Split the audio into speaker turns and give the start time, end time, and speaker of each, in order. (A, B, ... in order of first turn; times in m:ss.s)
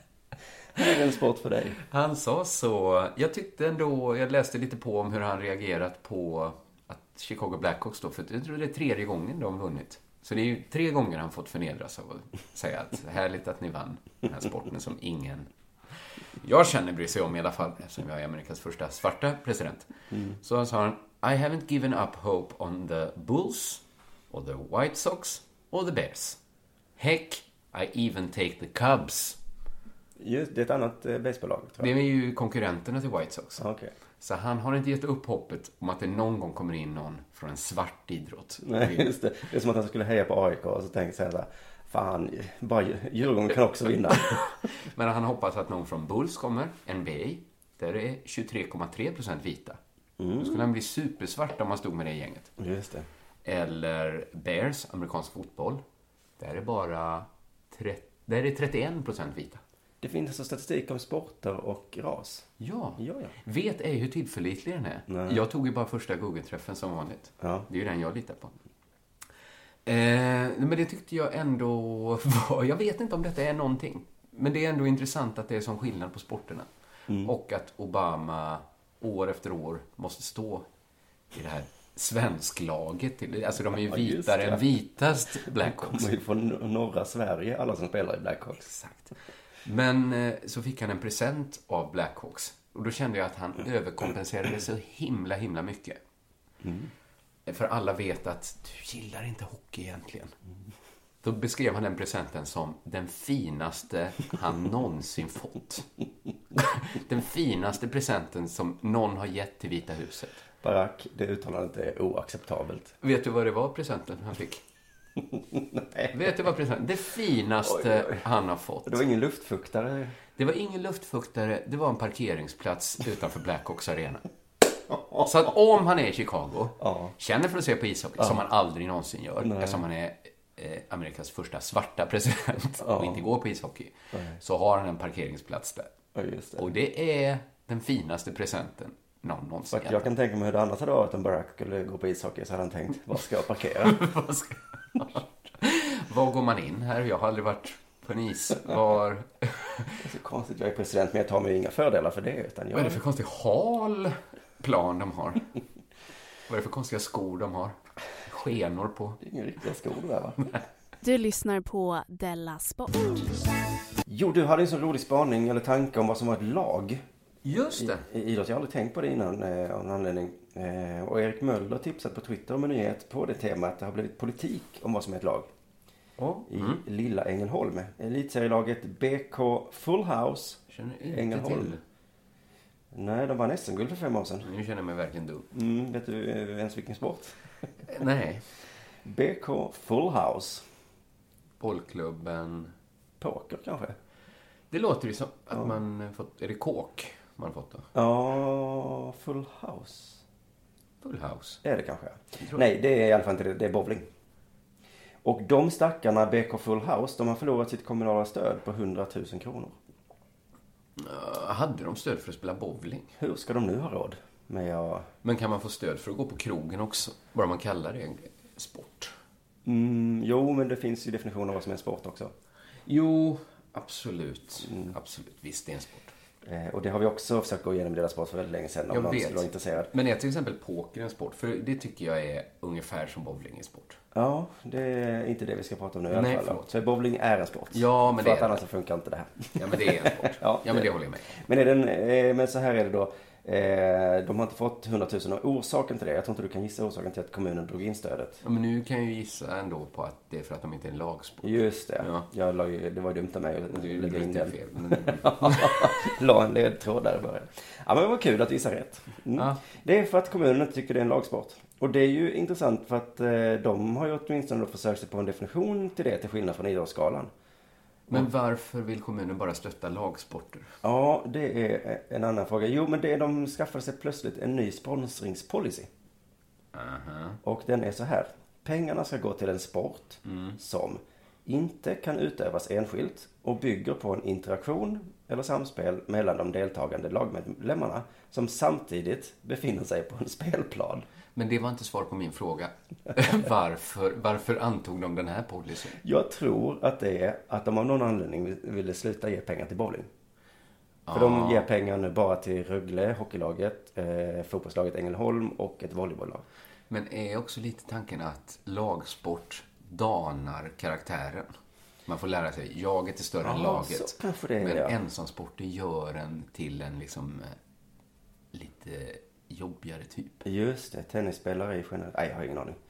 0:00.8-0:01.8 A
0:01.8-0:15.5 B
0:16.4-0:26.4 B
0:27.0-0:29.4 B
0:30.2-0:31.9 A
0:31.8-0:33.6 B
0:33.6-0:33.9 A
0:34.2-0:39.2 B
0:38.6-0:44.3 A
0:44.3-0:49.8 B
0:50.2-0:50.6 A
0:50.4-0:52.5 B
0:52.6-0:53.1 A
0:53.4-0:55.8 B
0:56.4-0:59.6 B
1:00.0-1:02.5 A
1:02.6-1:08.6 B
1:03.0-1:03.3 A
1:05.1-1:05.4 A
1:07.4-1:07.7 A
1:09.9-1:20.7 B
1:21.3-1:26.1 B
1:23.9-1:24.7 A
1:25.5-1:28.8 A
1:28.8-1:29.1 B
1:29.6-1:36.0 B
1:36.6-1:36.9 A
1:37.5-1:40.3 B
1:41.2-1:45.9 B
1:46.6-1:50.4 B
1:50.6-1:52.9 A
1:53.0-1:54.6 B
1:55.3-1:56.1 A
1:56.1-1:59.0 B
1:57.6-1:58.2 A
1:58.9-2:00.2 A
2:00.4-2:04.3 B
2:05.1-2:15.9 B
2:06.8-2:07.1 A
2:09.4-2:09.8 A
2:12.8-2:13.2 A
2:14.1-2:14.4 A
2:16.2-2:16.6 A
2:16.6-2:20.1 B
2:19.7-2:24.0 A
2:23.8-2:30.0 B
2:30.0-2:33.0 A
2:32.7-2:35.4 B
2:36.5-2:39.2 B
2:39.2-2:40.6 A
2:41.0-2:43.4 C
2:44.1-2:47.0 A
2:47.4-2:48.1 B
2:47.8-2:55.5 A
2:56.2-2:56.8 B
2:56.5-3:01.8 A
3:00.7-3:01.8 B
3:02.9-3:04.5 A
3:04.4-3:05.5 B
3:05.5-3:07.4 A
3:07.8-3:08.4 B
3:09.0-3:10.7 A
3:11.6-3:12.7 B
3:13.2-3:14.0 A
3:14.7-3:17.9 B
3:17.9-3:20.2 A
3:21.0-3:21.6 B
3:21.6-3:24.1 A
3:22.4-3:22.6 B
3:25.2-3:29.8 A
3:31.0-3:33.1 B
3:33.2-3:35.1 A
3:35.2-3:39.1 B
3:39.6-3:42.3 A
3:42.9-3:46.1 B
3:46.4-3:49.9 A
3:48.9-3:54.0 B
3:54.1-4:08.4 A
3:56.1-3:56.7 B
3:57.7-3:58.6 B
3:59.6-4:01.4 B
4:08.4-4:12.3 B
4:11.4-4:27.3 A
4:13.7-4:16.0 B
4:19.4-4:19.6 B
4:28.1-4:30.7 B
4:30.8-4:35.9 A
4:36.7-4:37.4 B
4:37.4-4:51.1 A
4:40.2-4:40.6 B
4:51.4-4:56.0 B
4:56.0-5:00.1 A
5:01.1-5:01.7 B
5:01.1-5:06.4 A
5:06.9-5:11.5 B
5:12.1-5:17.6 B
5:13.4-5:15.0 A
5:18.5-5:20.4 B
5:20.4-5:22.8 A